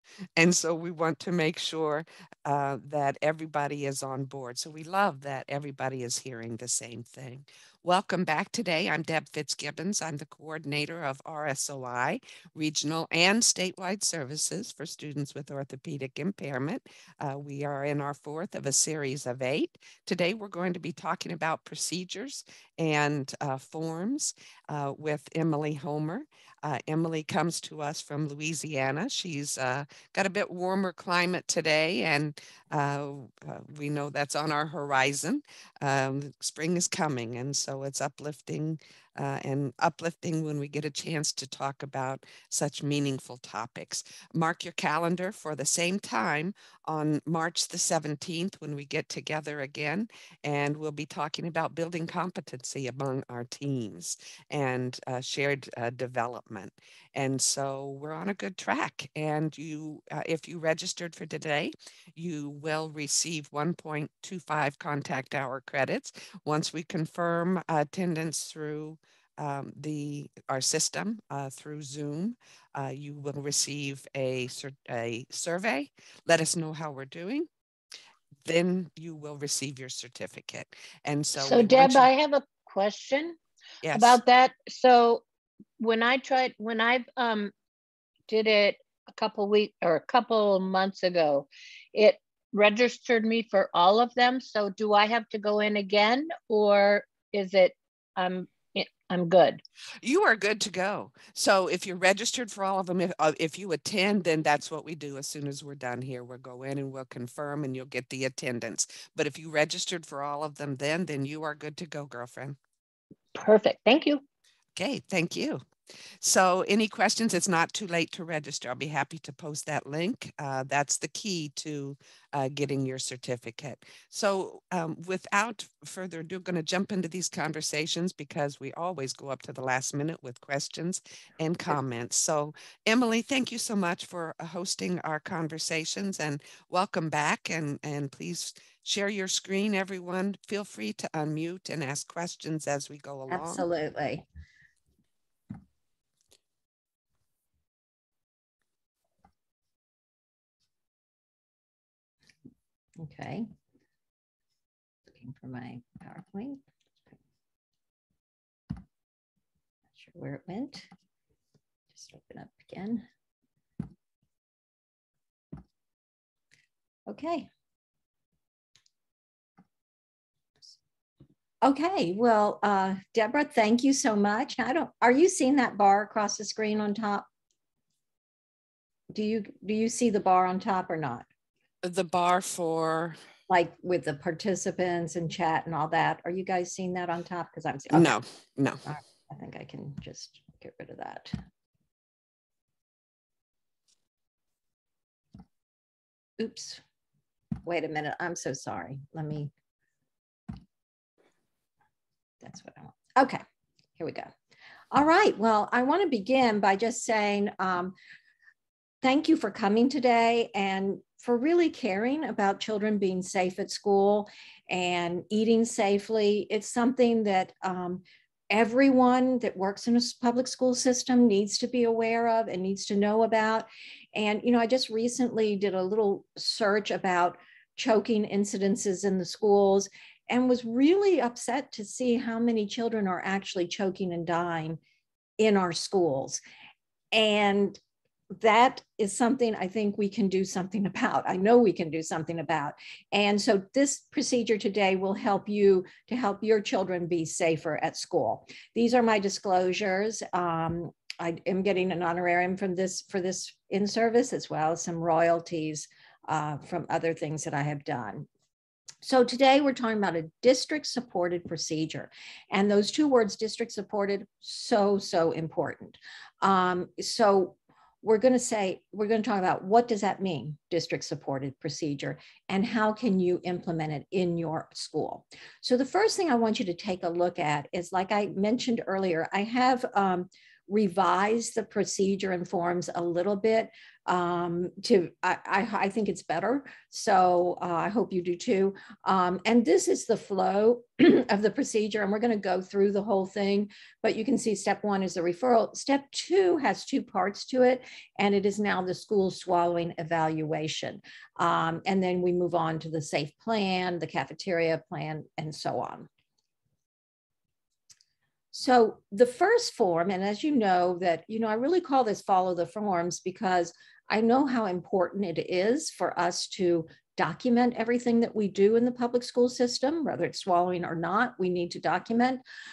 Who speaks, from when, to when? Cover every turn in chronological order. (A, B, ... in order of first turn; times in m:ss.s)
0:00.4-1:17.5 A
1:18.4-1:22.1 A
1:21.4-1:23.4 B
1:23.8-1:24.2 A
1:23.9-1:25.2 B
1:25.8-1:27.5 B
1:28.3-1:39.6 B
1:40.0-1:52.6 A
1:53.3-1:54.2 B
1:54.8-1:55.6 A
1:56.2-2:23.6 A
2:23.3-2:24.2 C
2:33.0-2:33.5 C
2:35.1-2:36.6 C
2:40.0-2:40.9 C
2:41.9-2:43.0 C
2:47.1-2:47.5 C
2:51.6-2:57.2 C
2:59.1-3:01.2 C
3:01.8-3:03.2 A
3:03.5-3:08.2 C
3:07.9-3:08.8 A
3:08.8-3:11.4 C
3:16.4-3:16.8 C
3:17.6-3:19.5 C
3:22.4-3:23.4 C
3:24.0-3:24.3 C
3:24.9-3:27.9 C
3:29.0-3:54.8 C
3:55.4-3:56.4 C
3:57.1-3:57.8 C
3:58.3-4:18.3 C
4:19.0-5:06.1 C
5:08.5-5:22.4 C